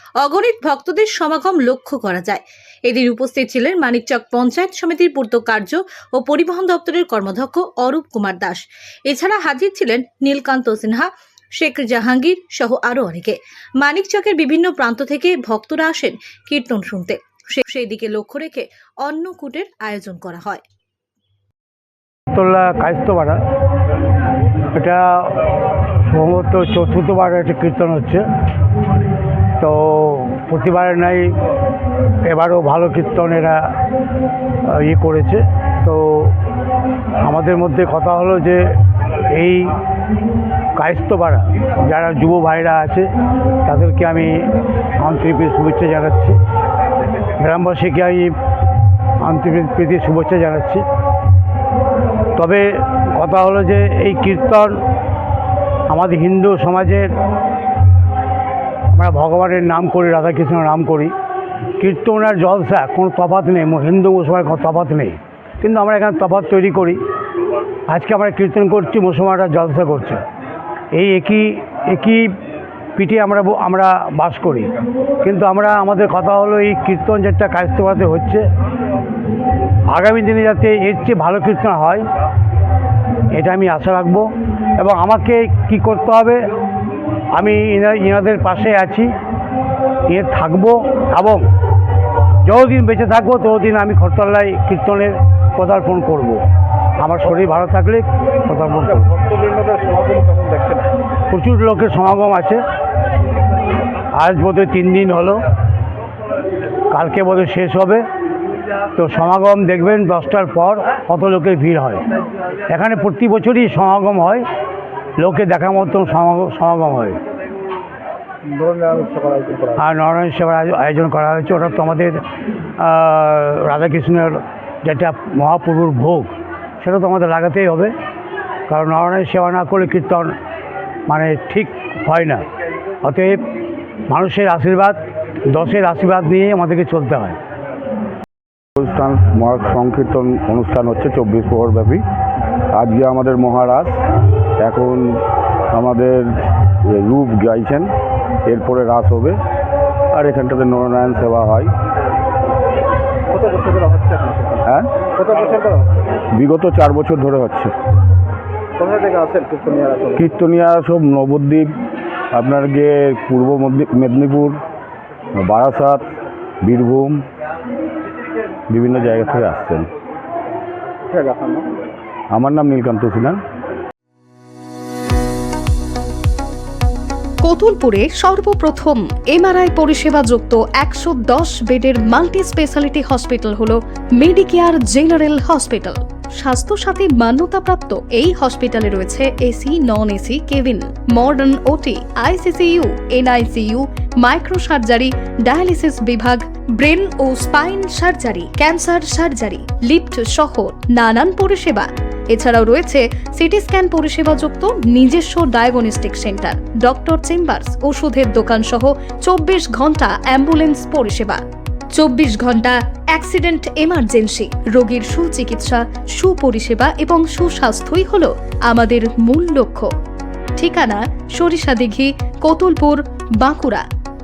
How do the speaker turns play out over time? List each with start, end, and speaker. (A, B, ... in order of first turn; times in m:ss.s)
0:00.2-0:20.6 A
0:22.3-0:23.4 B
0:24.7-0:25.4 B
0:26.0-0:28.2 B
0:29.6-0:31.4 B
0:32.2-0:33.7 B
0:34.6-0:36.4 B
0:37.2-0:39.7 B
0:40.8-0:43.1 B
0:43.6-0:46.4 B
0:47.4-0:48.3 B
0:49.2-0:50.8 B
0:52.4-0:54.8 B
0:55.9-0:57.1 B
0:58.9-1:01.1 B
1:01.8-1:07.0 B
1:07.9-1:10.2 B
1:10.9-1:12.4 B
1:13.0-1:14.7 B
1:15.2-1:18.4 B
1:19.9-1:22.0 B
1:23.3-1:26.5 B
1:27.3-1:29.1 B
1:30.1-1:31.5 B
1:32.4-1:36.4 B
1:37.0-1:39.2 B
1:39.3-1:40.9 C
1:41.3-1:42.6 B
1:44.1-1:45.4 B
1:46.9-1:48.0 B
1:48.9-1:52.0 B
1:52.7-1:54.4 B
1:55.2-1:57.2 B
1:58.4-1:59.7 C
1:59.7-2:02.2 B
2:02.8-2:07.9 B
2:08.7-2:10.4 B
2:11.1-2:12.4 B
2:13.0-2:13.4 B
2:14.1-2:17.4 B
2:18.8-2:22.0 D
2:22.7-2:24.0 D
2:24.6-2:27.9 D
2:28.4-2:29.4 D
2:30.1-2:31.7 D
2:33.3-2:34.6 C
2:34.6-2:35.0 D
2:35.2-2:35.8 C
2:36.3-2:37.8 D
2:38.8-2:40.2 C
2:40.2-2:41.7 D
2:42.3-2:44.6 D
2:45.3-2:47.2 D
2:48.7-2:49.9 D
2:51.1-2:51.7 C
2:52.3-2:53.4 D
2:57.4-3:39.9 E
3:40.6-3:43.8 E